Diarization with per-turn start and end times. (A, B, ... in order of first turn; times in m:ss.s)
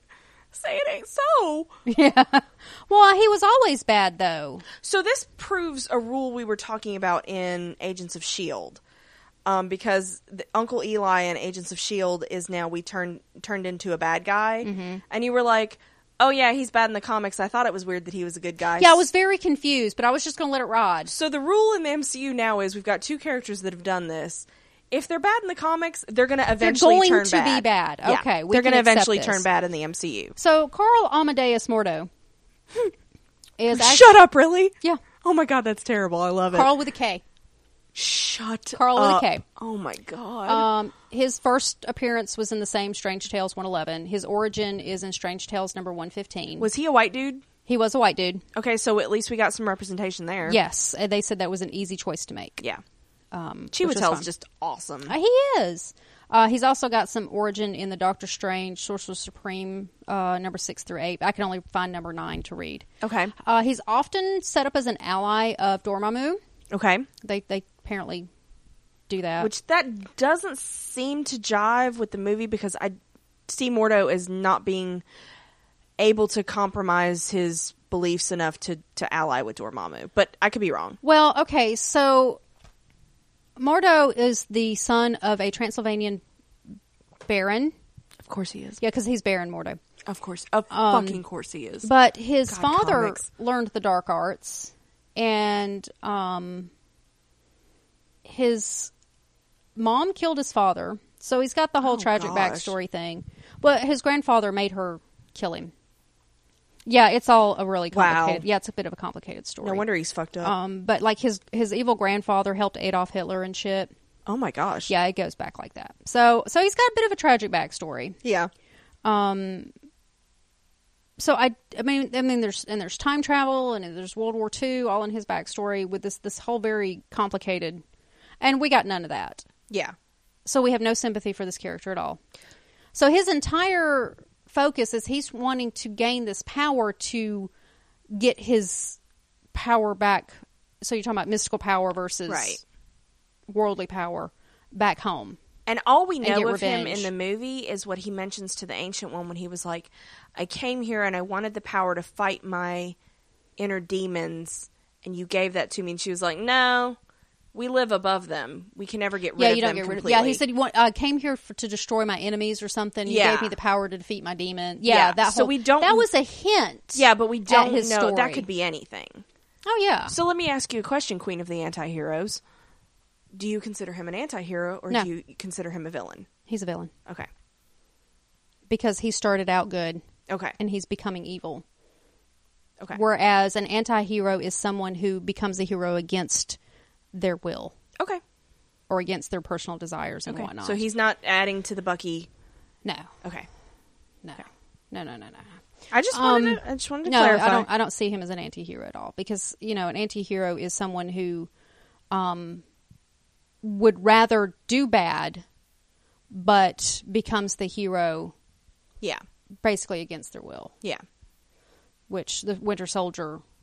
0:00.5-0:01.7 A
0:01.9-0:04.6 B
0:04.8-0:08.8 A
0:09.4-0:19.1 A
0:14.6-0:15.0 B
0:18.8-0:21.1 B
0:21.1-0:30.4 A
0:26.6-0:29.4 B
0:30.4-0:32.1 B
0:33.6-0:34.1 B
0:33.7-0:36.7 A
0:36.5-0:37.2 B
0:38.0-0:40.7 A
0:38.7-0:39.4 B
0:40.5-0:46.7 B
0:46.6-0:47.4 A
0:47.7-0:48.4 B
0:48.6-0:50.6 A
0:50.4-0:52.6 B
0:53.3-0:54.3 B
0:53.7-0:55.1 A
0:55.1-1:06.4 B
1:03.0-1:03.3 A
1:06.7-1:07.1 A
1:07.2-1:08.3 B
1:09.1-1:09.5 B
1:09.4-1:13.0 A
1:13.5-1:15.0 A
1:16.0-1:21.0 A
1:21.0-1:22.4 B
1:23.6-1:26.2 B
1:27.2-1:27.8 B
1:28.2-1:28.8 A
1:28.8-1:29.8 B
1:30.1-1:31.9 A
1:30.7-1:31.2 B
1:31.8-1:36.7 B
1:32.5-1:33.3 A
1:38.2-1:38.9 B
1:39.8-1:45.7 B
1:41.8-1:42.7 A
1:46.9-1:49.8 B
1:47.9-1:48.4 A
1:49.6-1:50.5 A
1:50.4-1:53.9 B
1:54.3-1:54.9 A
1:54.9-1:58.2 B
1:58.2-1:58.5 A
1:59.0-1:59.7 B
2:01.2-2:07.8 B
2:08.4-2:09.5 B
2:09.7-2:10.0 A
2:10.4-2:12.2 B
2:12.9-2:17.5 B
2:18.1-2:19.0 B
2:19.5-2:22.6 B
2:22.3-2:22.6 A
2:23.5-2:25.4 B
2:25.7-2:33.0 A
2:26.2-2:27.1 B
2:33.6-2:37.0 A
2:37.5-2:40.4 A
2:39.4-2:48.5 B
2:43.1-2:43.6 A
2:44.8-2:46.0 A
2:47.0-2:49.2 A
2:49.6-2:50.2 B
2:50.1-2:52.4 A
2:53.3-2:56.3 A
2:56.5-2:56.9 B
2:58.7-3:00.0 B
3:00.3-3:00.6 A
3:00.6-3:01.6 B
3:02.9-3:06.6 B
3:07.1-3:07.8 B
3:08.9-3:10.8 B
3:10.3-3:12.3 A
3:12.8-3:13.1 B
3:14.2-3:15.6 B
3:15.9-3:17.7 A
3:16.1-3:21.5 B
3:22.1-3:22.6 B
3:23.6-3:25.4 B
3:26.3-3:28.3 B
3:29.6-3:30.7 B
3:32.1-3:33.4 B